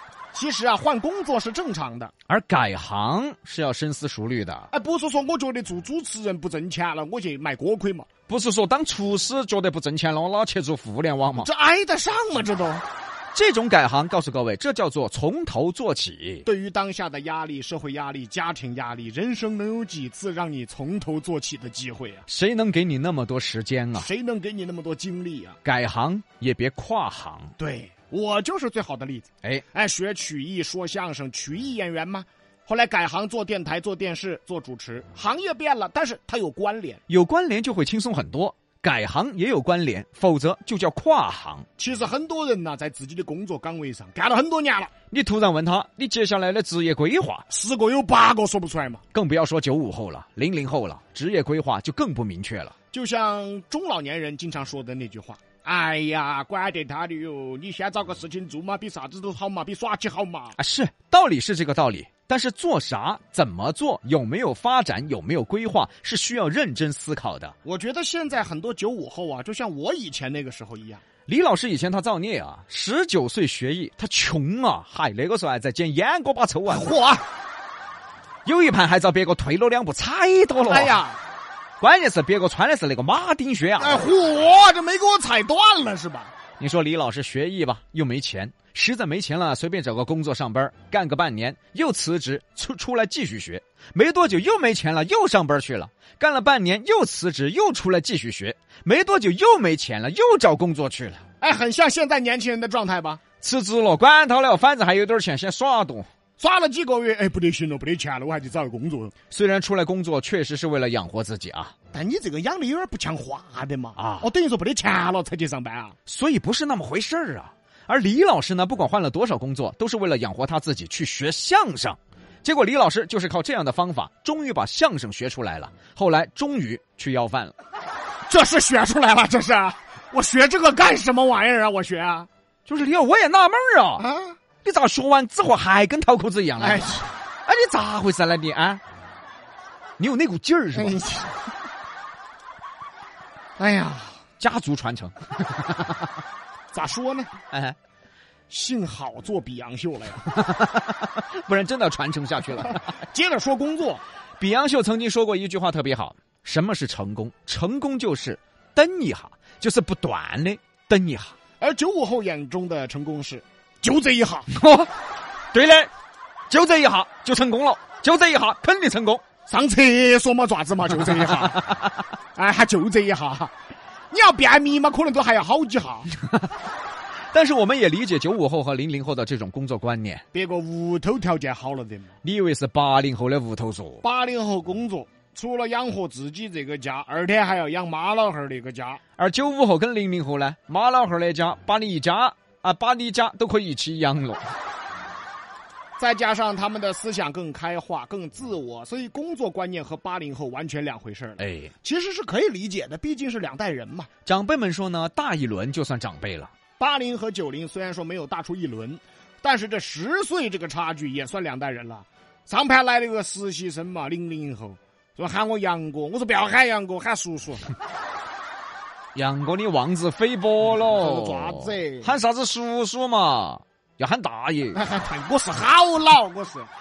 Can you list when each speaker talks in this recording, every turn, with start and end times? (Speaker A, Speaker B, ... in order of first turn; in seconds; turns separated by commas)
Speaker A: 0.3-2.1, Speaker B: 2.3-4.7, Speaker A: 4.7-8.1, Speaker B: 8.3-11.5, Speaker A: 11.4-12.8, Speaker B: 13.3-16.5, Speaker A: 16.4-22.3, Speaker B: 22.3-24.1, Speaker A: 24.0-25.6, Speaker B: 25.6-27.5, Speaker A: 27.6-37.0, Speaker B: 37.1-41.7, Speaker A: 41.8-44.9, Speaker B: 45.1-47.5, Speaker A: 47.5-49.0, Speaker B: 49.1-52.8, Speaker A: 52.9-60.6, Speaker B: 60.6-67.5, Speaker A: 67.7-71.0, Speaker B: 71.3-76.9, Speaker A: 76.7-77.2, Speaker B: 78.5-81.0, Speaker A: 80.7-81.2, Speaker B: 81.8-84.1, Speaker A: 83.8-86.3, Speaker B: 86.6-101.2, Speaker A: 101.4-103.2, Speaker B: 103.4-106.1, Speaker A: 106.4-109.1, Speaker B: 109.3-111.7, Speaker A: 111.9-116.0, Speaker B: 114.0-114.3, Speaker B: 116.1-127.5, Speaker A: 128.3-132.3, Speaker B: 132.7-134.1, Speaker A: 134.0-134.4, Speaker B: 134.6-136.9, Speaker A: 136.6-137.1, Speaker B: 137.5-138.8, Speaker B: 140.0-141.0, Speaker A: 140.7-141.4, Speaker A: 143.6-144.2, Speaker B: 144.4-146.1, Speaker A: 146.7-147.3, Speaker B: 147.5-147.8, Speaker A: 148.5-150.3, Speaker B: 150.3-152.9, Speaker A: 153.0-154.0, Speaker B: 154.4-161.3, Speaker A: 161.6-164.5, Speaker B: 164.5-164.9, Speaker B: 165.5-165.9, Speaker B: 166.5-169.2, Speaker A: 169.5-171.7, Speaker A: 172.3-173.5, Speaker A: 174.1-176.1, Speaker B: 177.3-180.2, Speaker A: 180.3-182.1, Speaker B: 182.2-184.0, Speaker A: 184.0-189.0, Speaker B: 189.2-194.5, Speaker A: 196.0-204.1, Speaker B: 201.4-201.7, Speaker B: 204.3-206.5, Speaker A: 206.8-217.7, Speaker B: 219.2-224.8, Speaker A: 220.9-222.1, Speaker A: 224.7-226.7